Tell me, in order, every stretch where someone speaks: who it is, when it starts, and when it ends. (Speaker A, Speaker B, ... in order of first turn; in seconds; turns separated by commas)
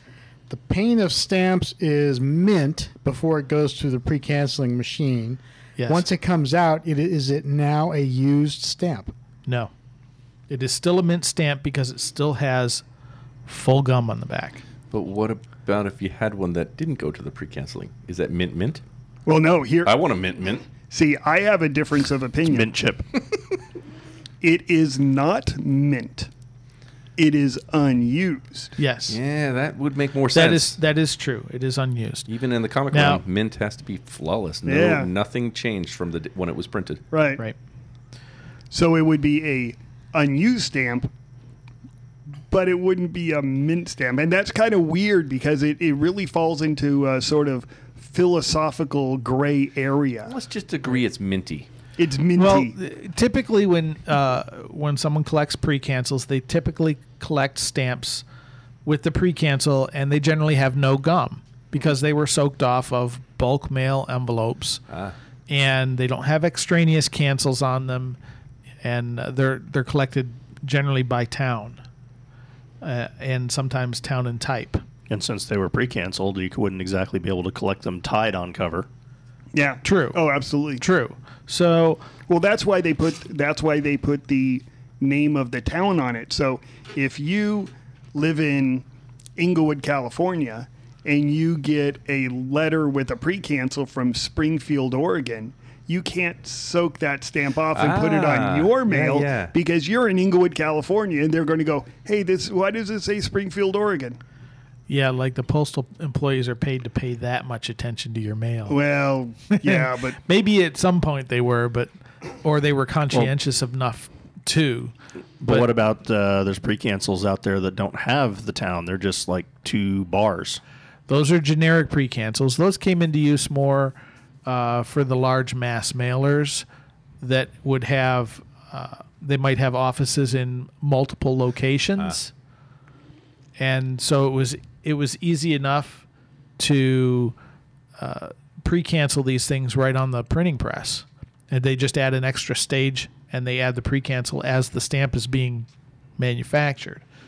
Speaker A: 0.5-9.1, Speaker B: 5.8-6.1, Speaker B: 9.5-9.7, Speaker B: 10.5-12.8, Speaker B: 13.5-14.6, Speaker C: 14.9-18.8, Speaker D: 19.3-19.9, Speaker C: 19.8-20.7, Speaker D: 20.9-22.7, Speaker E: 22.5-23.1, Speaker D: 24.4-26.3, Speaker D: 27.2-28.7, Speaker B: 28.8-29.2, Speaker C: 29.1-30.8, Speaker B: 30.3-32.3, Speaker C: 32.3-37.0, Speaker B: 32.9-33.2, Speaker D: 34.7-35.1, Speaker D: 37.1-37.4, Speaker D: 38.7-41.1, Speaker D: 42.5-50.3, Speaker C: 50.3-51.7, Speaker D: 52.0-52.8, Speaker B: 52.4-58.2, Speaker B: 58.9-64.8, Speaker C: 64.9-65.2, Speaker B: 65.5-68.2, Speaker B: 68.8-71.8, Speaker B: 72.8-74.8, Speaker E: 75.1-78.9, Speaker D: 79.5-80.8, Speaker B: 79.8-80.2, Speaker B: 80.8-82.1, Speaker D: 82.2-88.8, Speaker D: 89.4-104.2, Speaker C: 97.7-99.5, Speaker B: 104.9-108.8, Speaker D: 108.7-110.2, Speaker B: 109.5-111.9, Speaker B: 112.4-114.9, Speaker E: 115.4-120.6, Speaker B: 121.1-126.7, Speaker B: 127.2-132.3, Speaker B: 133.6-136.1, Speaker B: 136.6-137.3, Speaker B: 138.0-147.0